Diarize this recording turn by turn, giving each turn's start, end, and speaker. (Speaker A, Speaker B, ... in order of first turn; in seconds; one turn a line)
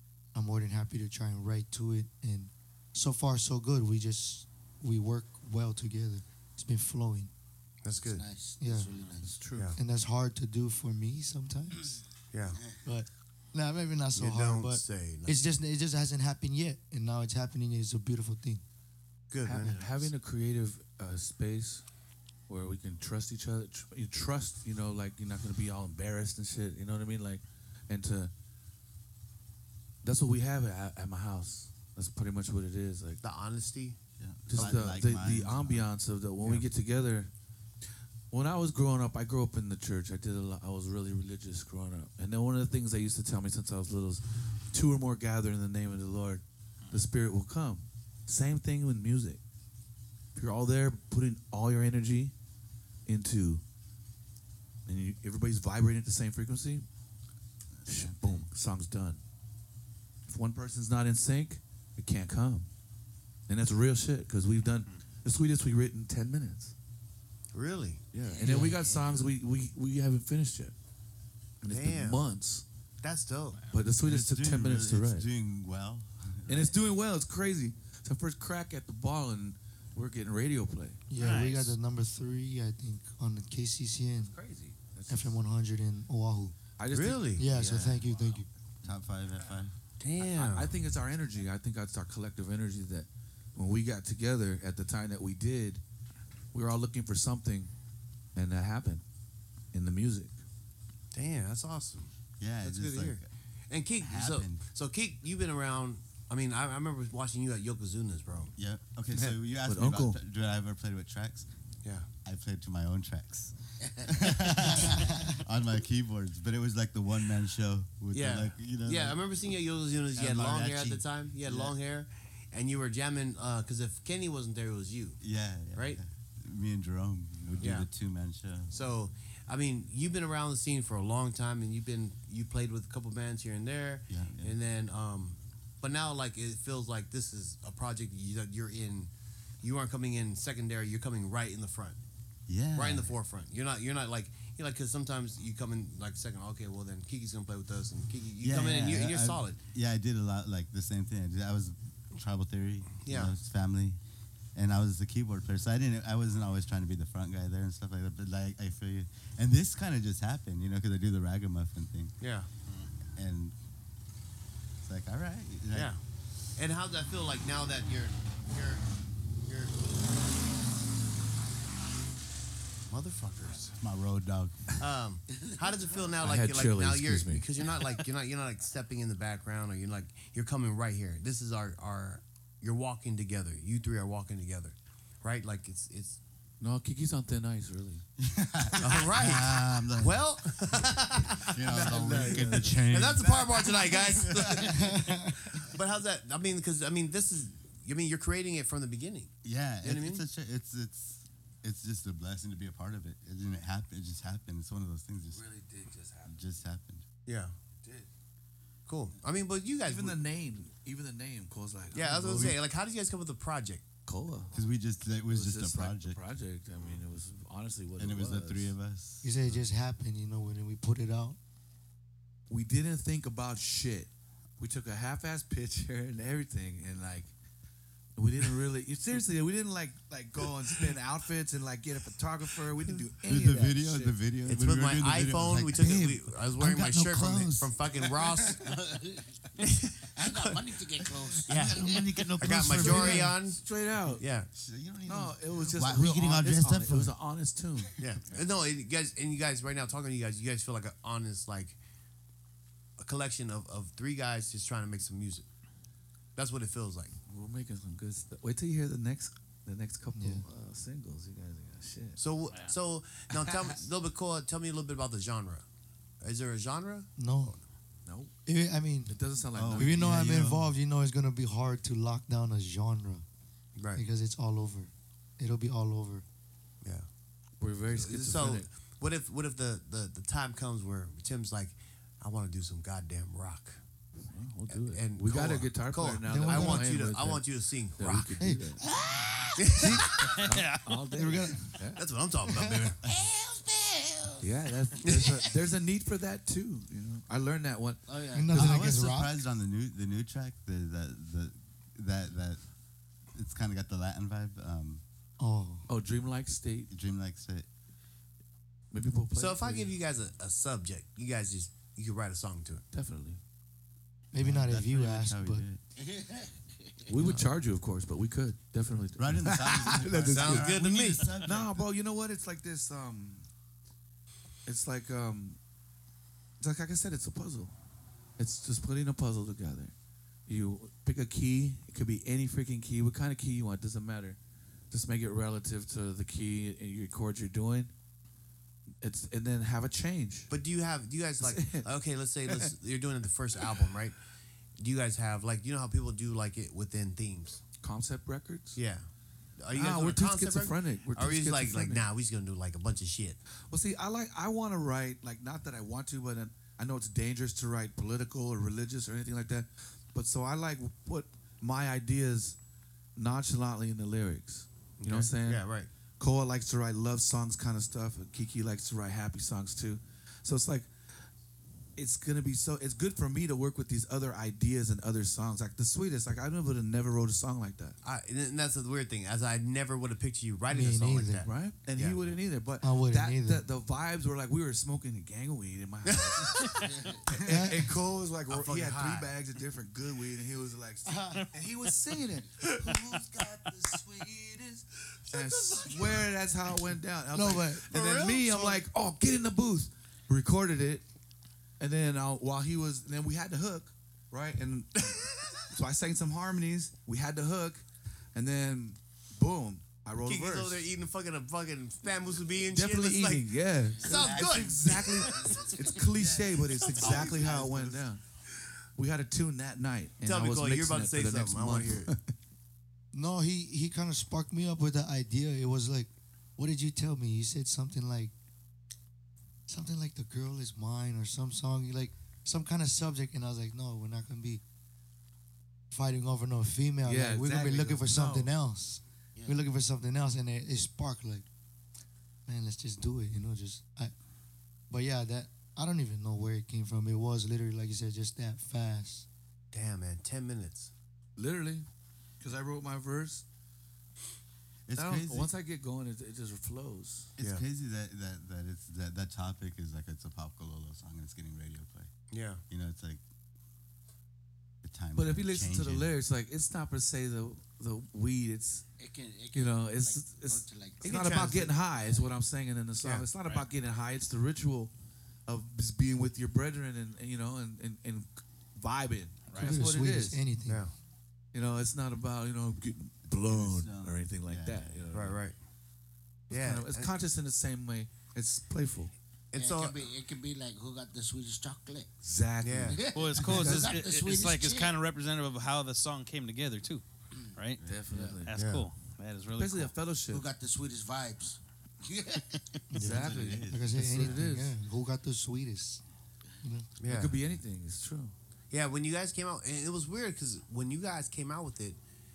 Speaker A: 0.3-7.3
Speaker B: 7.8-8.2
Speaker C: 8.0-9.4
Speaker A: 8.6-8.9
Speaker D: 9.2-9.8
Speaker A: 9.8-12.0
Speaker B: 12.3-12.6
Speaker A: 12.8-18.6
Speaker B: 14.2-15.4
Speaker B: 19.3-20.1
Speaker D: 19.4-21.8
Speaker D: 22.5-28.3
Speaker D: 30.0-33.2
Speaker B: 33.2-34.0
Speaker E: 34.2-35.9
Speaker D: 34.5-37.3
Speaker D: 38.3-49.4
Speaker D: 50.4-52.3
Speaker D: 53.1-53.6
Speaker D: 54.9-56.9
Speaker E: 57.7-58.5
Speaker D: 57.9-59.2
Speaker D: 60.3-62.7
Speaker D: 63.5-66.7
Speaker B: 67.5-68.6
Speaker C: 68.2-69.3
Speaker E: 68.3-68.6
Speaker D: 68.3-70.7
Speaker D: 71.6-72.7
Speaker B: 71.7-72.2
Speaker B: 73.0-73.6
Speaker D: 73.7-75.3
Speaker E: 74.0-76.8
Speaker D: 76.5-81.4
Speaker A: 81.1-84.3
Speaker F: 81.2-81.7
Speaker D: 84.2-85.4
Speaker A: 85.1-86.6
Speaker D: 86.8-88.2
Speaker B: 86.9-87.5
Speaker A: 87.4-88.5
Speaker E: 88.8-89.7
Speaker B: 90.0-90.8
Speaker D: 90.2-95.8
Speaker D: 96.5-97.7
Speaker D: 98.4-99.0
Speaker D: 99.7-100.4
Speaker B: 101.1-108.5
Speaker E: 102.4-103.3
Speaker E: 104.0-104.6
Speaker E: 108.6-111.5
Speaker D: 109.1-110.2
Speaker E: 112.2-119.2
Speaker A: 114.9-115.4
Speaker B: 118.1-125.2
Speaker E: 120.1-121.8
Speaker E: 125.2-128.7
Speaker B: 125.7-126.0
Speaker B: 127.6-127.9
Speaker B: 128.7-139.1
Speaker E: 134.1-134.6
Speaker B: 139.6-142.0
Speaker E: 142.5-143.2
Speaker B: 142.8-149.6
Speaker E: 148.4-154.0
Speaker B: 153.0-153.3
Speaker E: 154.6-162.2
Speaker B: 162.2-162.5
Speaker E: 163.2-163.6
Speaker E: 164.8-165.9
Speaker B: 165.7-166.0
Speaker B: 166.6-168.9
Speaker B: 169.5-170.0
Speaker B: 172.9-173.8
Speaker E: 173.8-174.7
Speaker B: 174.8-186.2
Speaker D: 176.2-177.5
Speaker D: 186.6-188.1
Speaker E: 188.2-190.2
Speaker B: 188.8-200.2
Speaker E: 191.5-195.0
Speaker D: 191.7-193.2
Speaker A: 194.7-195.3
Speaker E: 199.4-205.4
Speaker D: 205.3-206.3
Speaker E: 206.2-207.1
Speaker B: 207.3-207.5
Speaker B: 208.9-210.2
Speaker D: 209.8-212.6
Speaker B: 211.9-213.9
Speaker D: 214.1-214.6
Speaker E: 214.5-216.2
Speaker D: 215.3-218.8
Speaker E: 218.0-219.6
Speaker A: 219.2-221.4
Speaker D: 222.5-227.3
Speaker D: 228.2-234.2
Speaker E: 233.2-237.7
Speaker B: 234.5-238.6
Speaker C: 238.6-239.3
Speaker B: 239.6-240.7
Speaker C: 240.2-242.1
Speaker B: 241.5-243.6
Speaker E: 241.5-243.4
Speaker D: 242.6-244.2
Speaker B: 244.2-244.5
Speaker E: 244.5-247.2
Speaker D: 245.1-248.0
Speaker B: 248.0-251.8
Speaker B: 253.0-255.5
Speaker B: 256.4-257.1
Speaker D: 257.3-262.2
Speaker A: 260.1-260.4
Speaker B: 262.2-265.6
Speaker F: 262.5-262.8
Speaker D: 263.3-263.8
Speaker B: 266.2-267.6
Speaker A: 267.2-267.6
Speaker D: 268.1-268.3
Speaker A: 268.5-269.2
Speaker D: 269.1-270.1
Speaker E: 269.5-270.7
Speaker A: 269.8-273.2
Speaker B: 273.8-274.0
Speaker A: 273.9-276.2
Speaker D: 277.6-278.7
Speaker B: 277.9-283.8
Speaker D: 284.3-287.5
Speaker B: 284.7-288.3
Speaker A: 286.3-286.9
Speaker D: 288.0-288.8
Speaker A: 288.4-288.7
Speaker B: 289.6-290.3
Speaker A: 289.8-290.1
Speaker D: 289.8-292.0
Speaker F: 290.3-291.0
Speaker A: 291.1-291.8
Speaker B: 291.9-293.0
Speaker A: 292.5-292.9
Speaker C: 293.0-295.0
Speaker D: 294.4-298.0
Speaker B: 295.0-295.4
Speaker C: 298.1-298.7
Speaker A: 298.3-299.4
Speaker E: 298.5-302.6
Speaker E: 303.4-305.0
Speaker A: 305.4-305.9
Speaker D: 305.9-306.9
Speaker E: 306.9-307.7
Speaker D: 308.9-309.9
Speaker B: 309.4-312.9
Speaker D: 312.9-313.4
Speaker A: 314.3-315.7
Speaker E: 314.4-315.8
Speaker C: 316.0-317.1
Speaker D: 317.1-320.8
Speaker E: 319.2-321.8
Speaker B: 320.3-321.4
Speaker D: 321.4-323.5
Speaker D: 324.7-325.6
Speaker D: 326.6-327.7
Speaker D: 328.4-329.9
Speaker D: 330.5-334.4
Speaker D: 334.9-337.9
Speaker D: 339.0-340.5
Speaker B: 340.5-344.2
Speaker D: 341.4-341.9
Speaker D: 342.5-342.7
Speaker B: 344.8-347.6
Speaker D: 347.8-348.8
Speaker B: 348.8-349.1
Speaker B: 349.6-353.4
Speaker D: 349.7-352.1
Speaker D: 353.7-362.6
Speaker D: 363.2-365.6
Speaker B: 365.0-365.9
Speaker D: 366.2-370.9
Speaker D: 372.0-378.0
Speaker B: 378.0-382.2
Speaker A: 380.7-381.5
Speaker D: 381.4-386.7
Speaker A: 382.8-383.6
Speaker B: 386.1-386.9
Speaker C: 386.9-387.2
Speaker D: 387.3-394.8
Speaker A: 387.4-387.9
Speaker B: 388.5-389.3
Speaker A: 391.1-391.5
Speaker B: 392.6-393.2
Speaker C: 392.7-394.8
Speaker B: 395.2-396.3
Speaker D: 395.3-401.0
Speaker A: 397.3-397.9
Speaker B: 397.9-398.8
Speaker D: 401.8-405.1
Speaker B: 405.0-405.6
Speaker D: 405.7-410.9
Speaker B: 410.2-413.5
Speaker D: 412.7-418.2
Speaker C: 414.0-414.6
Speaker B: 414.0-416.2
Speaker C: 415.2-416.4
Speaker B: 416.8-418.0
Speaker D: 419.0-422.3
Speaker B: 420.2-422.1
Speaker A: 423.1-428.3
Speaker A: 429.7-434.6
Speaker A: 435.9-441.5
Speaker D: 437.1-438.5
Speaker C: 439.4-439.6
Speaker A: 442.5-444.1
Speaker A: 444.9-449.3
Speaker B: 449.7-450.9
Speaker D: 451.4-451.9
Speaker D: 452.4-453.4
Speaker E: 454.9-455.5
Speaker D: 455.0-457.3
Speaker E: 457.4-462.1
Speaker B: 462.3-462.6
Speaker E: 462.7-463.2
Speaker E: 464.8-466.1
Speaker D: 465.1-468.9
Speaker C: 469.0-472.3
Speaker D: 469.5-474.9
Speaker B: 471.0-471.8
Speaker B: 473.0-473.3
Speaker D: 475.5-480.4
Speaker F: 479.5-479.8
Speaker A: 479.6-480.8
Speaker B: 480.7-480.9
Speaker D: 481.5-485.4
Speaker E: 483.3-485.3
Speaker B: 485.1-485.6
Speaker D: 486.5-489.1
Speaker B: 486.5-487.1
Speaker B: 489.5-490.1
Speaker C: 489.6-492.1
Speaker D: 492.2-493.9
Speaker B: 492.6-493.0
Speaker C: 492.9-495.0
Speaker F: 493.1-497.1
Speaker E: 493.4-493.8
Speaker F: 497.6-497.9
Speaker D: 497.8-498.5
Speaker C: 498.1-498.5
Speaker F: 498.5-499.9
Speaker B: 498.6-498.9
Speaker D: 499.6-500.5
Speaker C: 500.3-502.8
Speaker A: 502.9-506.0
Speaker D: 503.0-504.8
Speaker E: 503.0-504.4
Speaker B: 507.0-507.4
Speaker D: 507.0-508.3
Speaker B: 508.7-512.0